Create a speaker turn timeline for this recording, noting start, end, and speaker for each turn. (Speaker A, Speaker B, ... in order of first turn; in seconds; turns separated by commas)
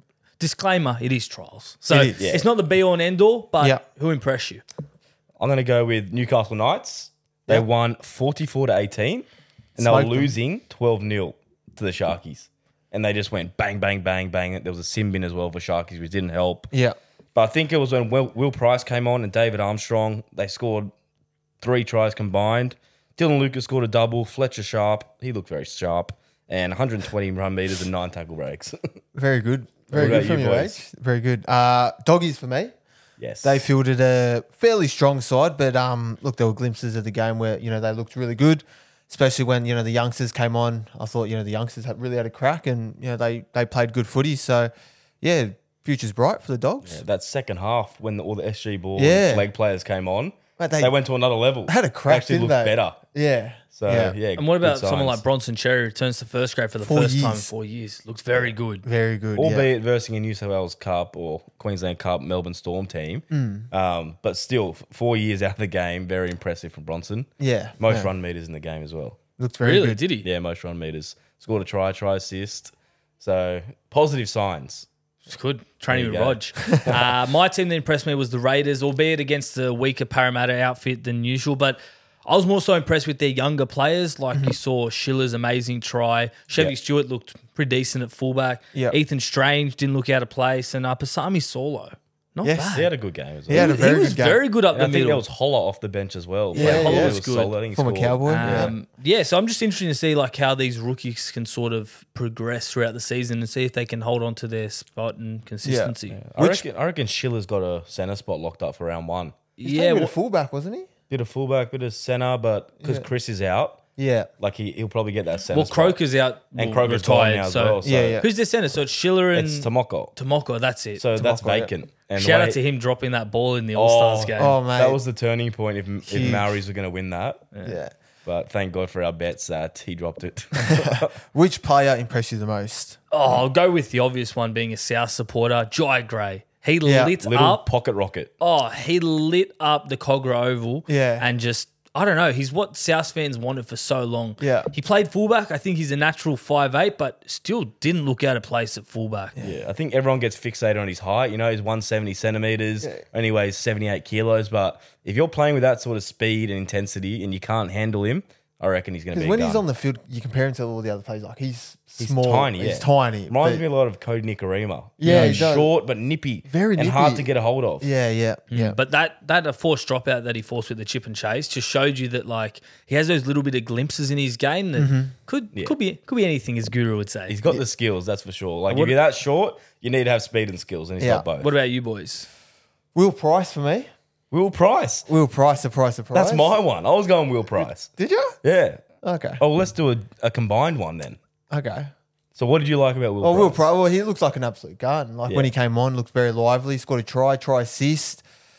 Speaker A: 0.4-4.6, Speaker B: 1.9-2.2, Speaker C: 2.2-2.5, Speaker C: 5.4-9.2, Speaker B: 9.8-10.3, Speaker C: 9.8-16.7, Speaker B: 16.7-17.0, Speaker C: 17.3-20.9, Speaker C: 21.6-28.8, Speaker B: 29.1-32.7, Speaker C: 29.9-30.8, Speaker C: 33.2-33.6, Speaker B: 33.4-44.7, Speaker B: 45.2-47.0, Speaker C: 46.8-53.0, Speaker B: 49.0-49.5, Speaker B: 50.6-50.9, Speaker B: 51.6-54.1, Speaker C: 53.7-55.2, Speaker A: 54.4-58.8, Speaker B: 56.8-57.5, Speaker B: 58.8-59.7, Speaker C: 59.4-69.2, Speaker B: 63.3-63.7, Speaker B: 67.4-68.1, Speaker B: 69.4-70.0, Speaker A: 69.6-70.2, Speaker C: 70.2-74.9, Speaker A: 75.3-92.9, Speaker C: 75.9-77.0, Speaker B: 92.4-92.7, Speaker C: 92.7-93.8, Speaker B: 93.5-94.4, Speaker A: 93.5-95.2, Speaker C: 94.7-98.7, Speaker B: 96.5-97.2, Speaker A: 96.6-97.5, Speaker B: 97.7-98.7, Speaker A: 98.2-106.2, Speaker B: 105.6-106.6, Speaker C: 106.1-109.3, Speaker A: 109.6-110.1, Speaker B: 109.6-110.9, Speaker C: 111.1-113.8, Speaker B: 114.0-114.3, Speaker C: 114.4-116.0, Speaker A: 115.5-121.0, Speaker C: 116.5-118.2, Speaker B: 117.8-118.3, Speaker C: 119.3-120.1, Speaker C: 121.0-122.6, Speaker B: 121.1-121.7, Speaker A: 122.1-124.5, Speaker C: 123.7-127.5, Speaker B: 124.4-125.0, Speaker B: 126.0-126.6, Speaker B: 127.6-127.9, Speaker C: 128.2-131.1, Speaker B: 130.6-133.3, Speaker A: 133.1-137.6, Speaker B: 136.8-137.1, Speaker C: 137.2-138.3, Speaker A: 138.4-149.3, Speaker B: 140.9-141.2, Speaker B: 144.4-144.7, Speaker C: 149.4-159.6, Speaker B: 159.1-163.6, Speaker C: 162.0-167.9, Speaker B: 165.0-165.7, Speaker A: 165.0-165.5, Speaker B: 166.4-167.3, Speaker B: 167.8-168.8, Speaker A: 168.5-177.3, Speaker B: 174.8-175.1, Speaker C: 177.3-181.5, Speaker A: 178.7-179.0, Speaker B: 181.0-181.2, Speaker A: 181.4-182.3, Speaker B: 182.9-183.9, Speaker C: 184.3-185.1, Speaker B: 185.1-186.5, Speaker C: 186.1-187.9, Speaker B: 187.6-188.3, Speaker C: 188.4-188.8, Speaker B: 189.0-189.4, Speaker C: 189.4-191.2, Speaker B: 191.5-191.9, Speaker C: 192.3-193.6, Speaker B: 193.2-198.2